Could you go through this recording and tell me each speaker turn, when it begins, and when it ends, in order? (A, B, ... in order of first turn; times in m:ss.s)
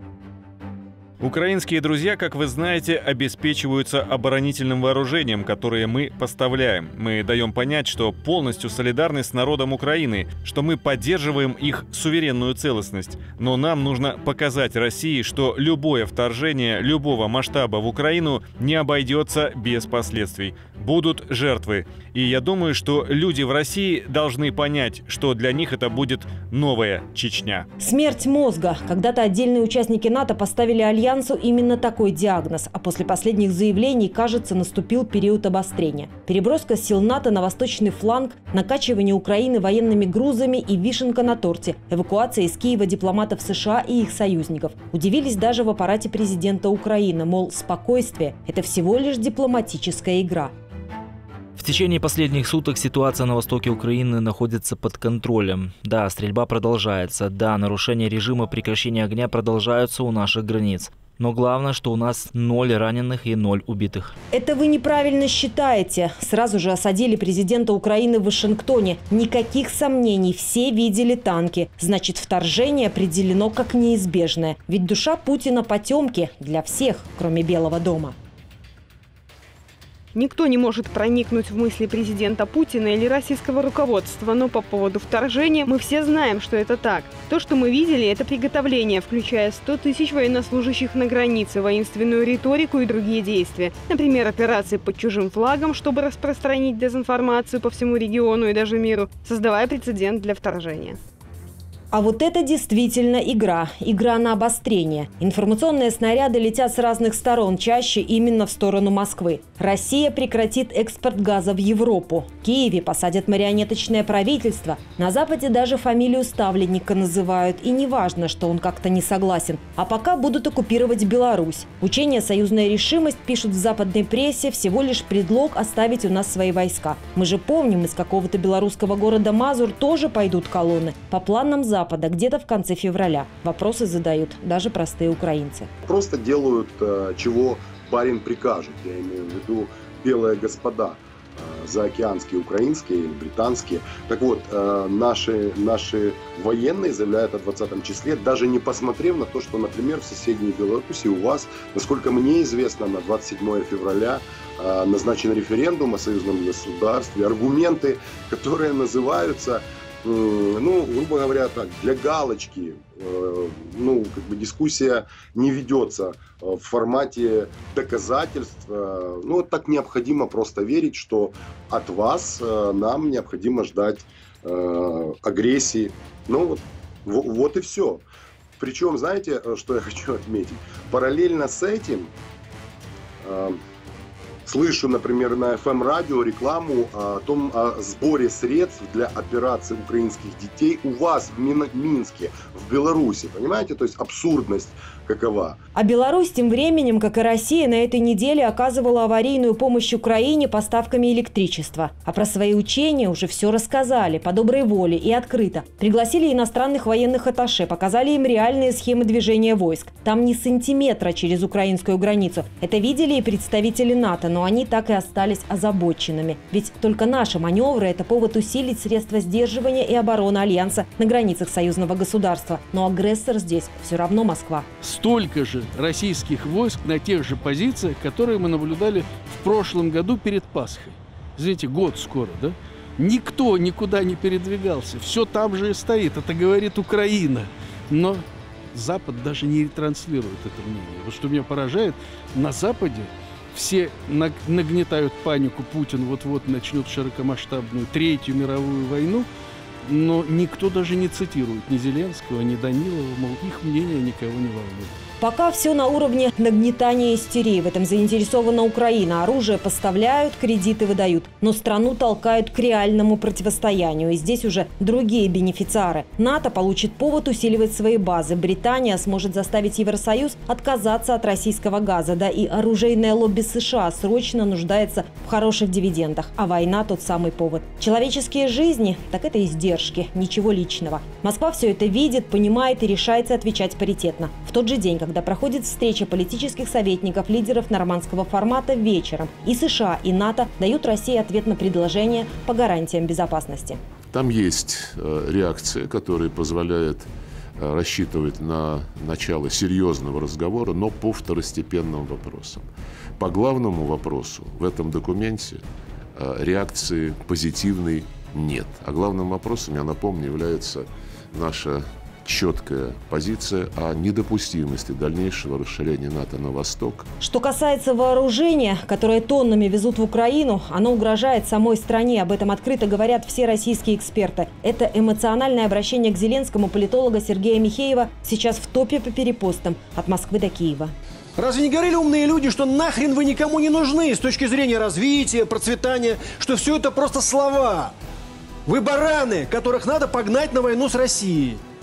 0:01.2-0:27.7 A
0:27.8-0:50.5 B
0:51.6-1:04.2 C
1:04.3-1:18.2 B
1:20.1-1:41.0 D
1:41.9-2:15.7 B
2:15.8-2:58.0 E
2:58.6-3:02.1 E
3:03.2-3:03.6 E
3:04.4-3:15.6 E
3:15.8-3:44.7 B
3:44.8-4:09.3 F
4:09.8-4:15.0 F
4:15.2-4:53.8 B
4:54.1-5:02.7 G
5:03.2-5:17.1 G
5:17.2-5:30.9 B
5:31.4-5:37.9 H
5:38.7-5:41.6 H